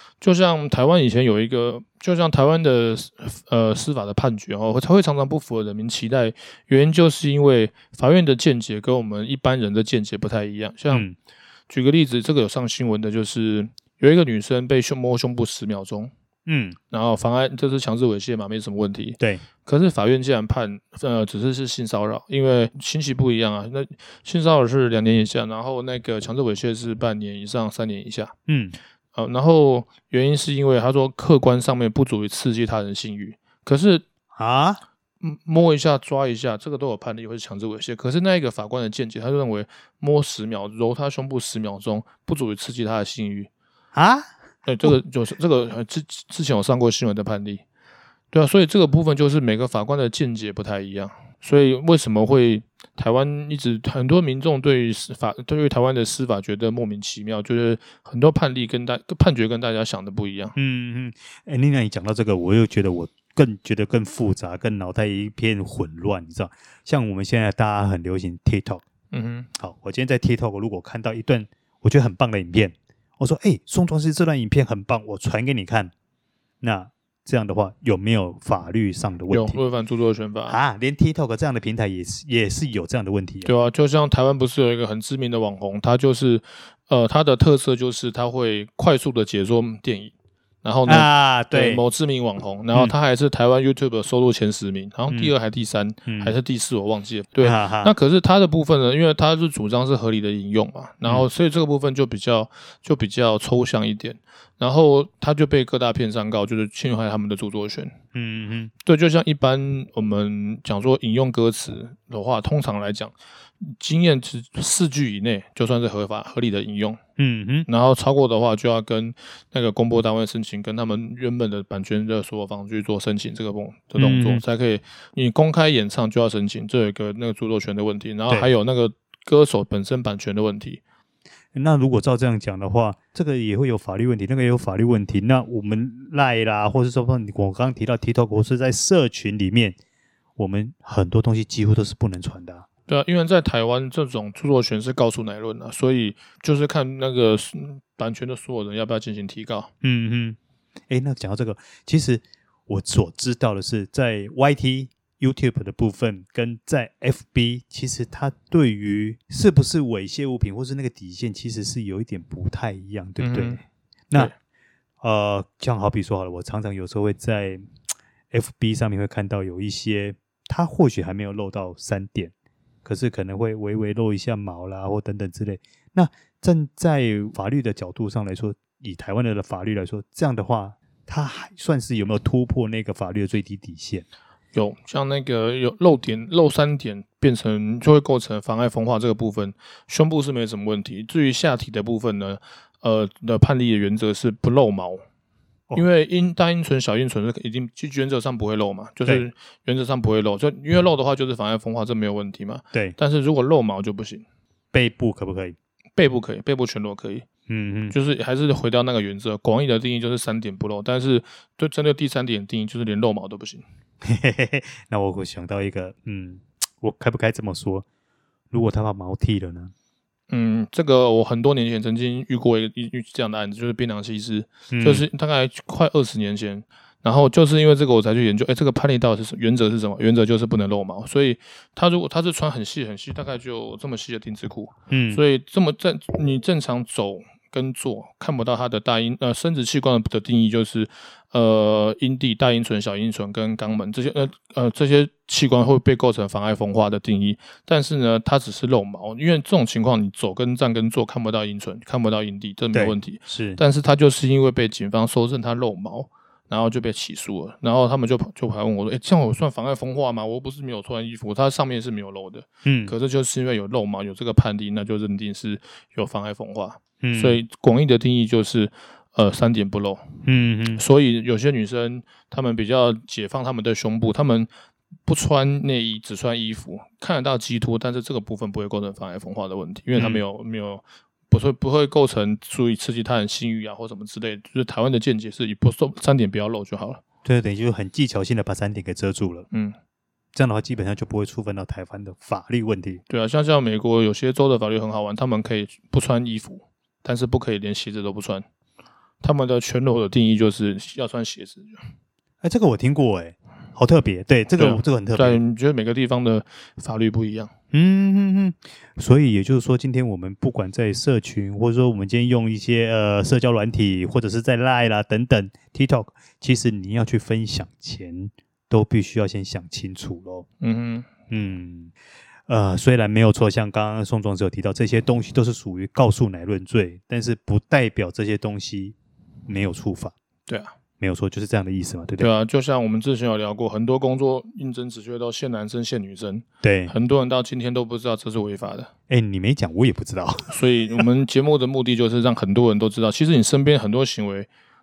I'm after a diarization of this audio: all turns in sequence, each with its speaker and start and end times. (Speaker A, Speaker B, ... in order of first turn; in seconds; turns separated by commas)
Speaker A: 0.2-11.1, Speaker B: 10.9-11.2, Speaker A: 11.7-16.1, Speaker B: 16.4-16.8, Speaker A: 16.9-28.3, Speaker B: 28.5-28.8, Speaker A: 29.1-34.0, Speaker B: 34.3-34.8, Speaker A: 35.2-43.5, Speaker B: 43.9-44.3, Speaker A: 44.6-47.6, Speaker A: 48.3-60.5, Speaker B: 60.5-68.8, Speaker A: 69.1-69.5, Speaker B: 69.6-75.9, Speaker B: 76.6-79.6, Speaker A: 79.3-80.6, Speaker B: 80.5-83.5, Speaker A: 83.4-107.9, Speaker B: 90.8-91.8, Speaker B: 96.1-96.3, Speaker B: 97.4-97.9, Speaker B: 108.1-108.7, Speaker A: 108.8-117.0, Speaker B: 117.2-117.7, Speaker A: 117.7-130.8, Speaker B: 124.0-124.4, Speaker B: 131.5-139.8, Speaker B: 140.4-142.7, Speaker A: 142.9-149.7, Speaker B: 149.8-150.4, Speaker B: 150.9-163.6, Speaker A: 163.2-163.6, Speaker B: 165.0-167.6, Speaker B: 168.3-172.3, Speaker B: 172.8-184.1, Speaker A: 184.5-195.0, Speaker A: 195.7-204.2, Speaker B: 204.7-205.6, Speaker A: 206.0-207.2, Speaker B: 207.5-208.0, Speaker A: 207.9-213.6, Speaker B: 214.0-217.8, Speaker B: 218.5-219.7, Speaker A: 220.3-270.0, Speaker B: 224.7-225.0, Speaker B: 234.9-235.2, Speaker B: 252.7-253.6, Speaker B: 262.6-262.9, Speaker B: 267.0-267.4, Speaker B: 270.2-270.8, Speaker A: 270.7-274.5, Speaker A: 275.1-287.0, Speaker B: 279.9-280.2, Speaker B: 287.2-289.5, Speaker A: 289.5-289.8, Speaker B: 290.3-293.0, Speaker A: 293.1-298.4, Speaker A: 299.2-301.8, Speaker B: 302.4-305.4, Speaker A: 304.5-307.5, Speaker B: 307.7-320.4, Speaker A: 320.6-321.1, Speaker B: 321.3-321.9, Speaker B: 322.5-328.9, Speaker B: 329.5-330.1, Speaker A: 330.5-330.7, Speaker B: 331.0-332.3, Speaker A: 332.2-338.9, Speaker B: 336.6-336.9, Speaker B: 339.1-341.0, Speaker A: 340.5-344.5